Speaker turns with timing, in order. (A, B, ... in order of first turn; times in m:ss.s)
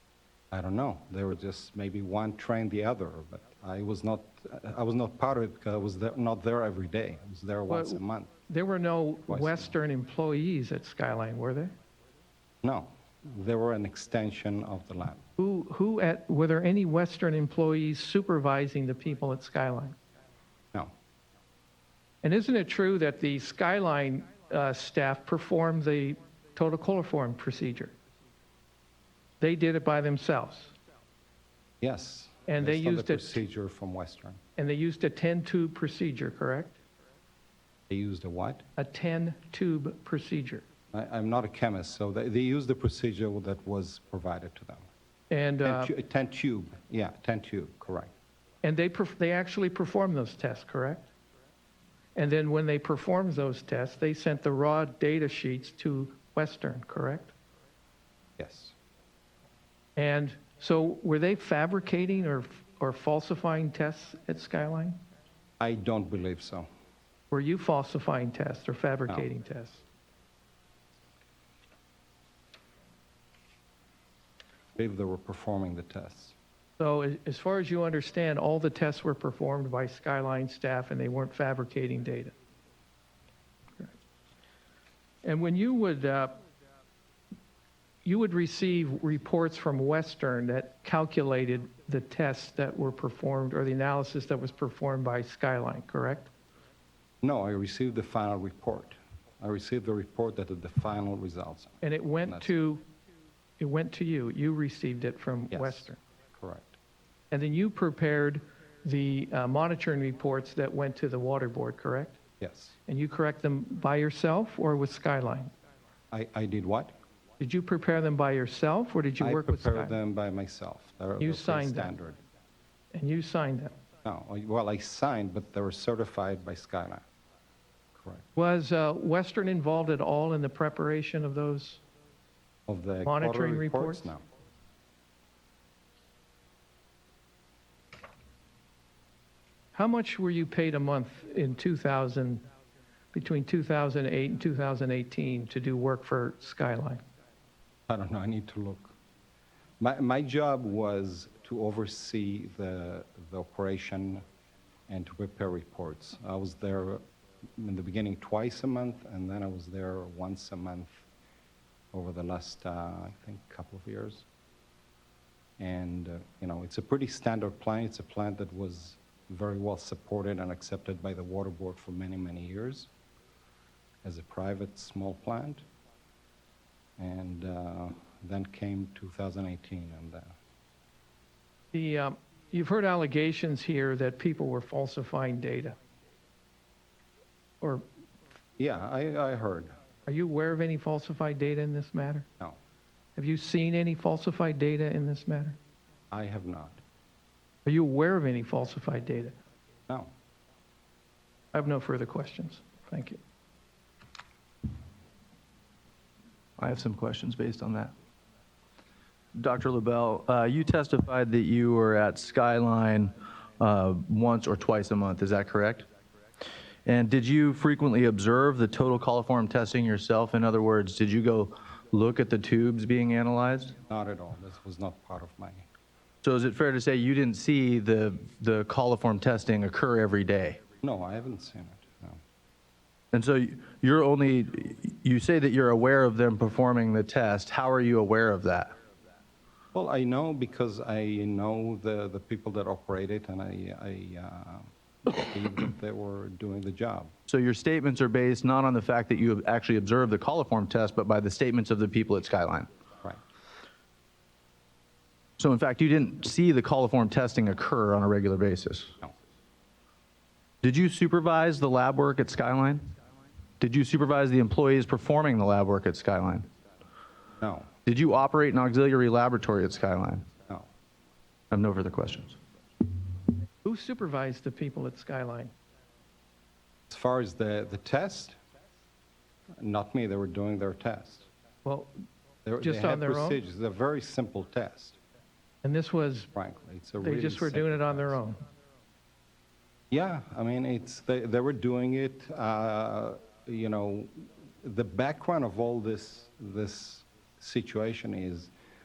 0:00.5-0:08.3 A
0:07.7-0:11.7 B
0:09.3-0:09.8 A
0:12.6-0:15.2 A
0:15.4-0:20.0 B
0:22.2-0:27.9 B
0:29.4-0:30.7 B
0:31.8-0:34.4 A
0:32.5-0:33.4 B
0:34.6-0:36.8 B
0:37.9-0:38.6 A
0:38.8-0:40.6 B
0:40.9-0:44.8 A
0:45.3-0:45.9 B
0:45.6-0:48.1 A
0:48.6-0:51.1 B
0:52.1-0:57.3 B
0:58.4-0:58.7 A
1:00.0-1:05.0 B
1:05.6-1:06.7 A
1:07.3-1:09.8 B
1:14.8-1:16.3 A
1:16.8-1:22.3 B
1:25.2-1:26.4 B
1:28.0-1:36.3 B
1:37.2-1:42.5 A
1:41.8-1:42.8 B
1:43.6-1:46.0 B
1:45.5-1:46.8 A
1:47.3-1:52.2 B
1:52.4-1:52.7 A
1:52.8-1:55.5 B
1:56.1-1:57.0 A
1:57.4-2:00.0 B
1:59.2-2:02.2 A
2:01.2-2:02.0 B
2:02.9-2:03.8 B
2:04.0-2:07.0 A
2:08.0-2:08.2 A
2:08.3-2:11.8 B
2:12.7-2:14.2 A
2:13.0-2:14.1 B
2:19.7-2:22.4 B
2:23.1-2:27.0 B
2:27.9-2:28.9 A
2:29.8-2:34.2 A
2:34.9-2:37.0 A
2:37.6-2:41.0 A
2:41.9-2:44.2 A
2:45.6-2:52.9 A
2:54.0-2:55.6 A
2:57.0-3:00.3 A
3:01.7-3:05.8 B
3:07.6-3:07.8 B
3:08.6-3:09.8 A
3:10.1-3:12.3 B
3:13.2-3:15.6 B
3:16.1-3:16.8 A
3:17.6-3:19.3 B
3:21.5-3:23.2 B
3:26.6-3:27.9 C
3:29.4-3:35.9 C
3:36.8-3:43.8 C
3:43.9-3:45.6 A
3:46.2-3:50.6 C
3:50.8-3:52.2 A
3:53.1-3:58.7 C
3:59.7-4:07.1 A
4:07.3-4:12.7 C
4:15.4-4:19.0 C
4:20.6-4:22.9 C
4:23.6-4:26.5 C
4:27.4-4:27.7 A
4:27.8-4:30.2 C
4:31.5-4:32.4 C
4:33.6-4:35.5 B
4:36.9-4:38.4 A
4:39.6-4:41.3 A
4:41.6-4:41.9 B
4:42.4-4:45.0 A
4:42.6-4:43.4 B
4:45.6-4:46.3 B
4:46.3-4:48.2 A
4:47.0-4:48.4 B
4:49.9-4:58.5 A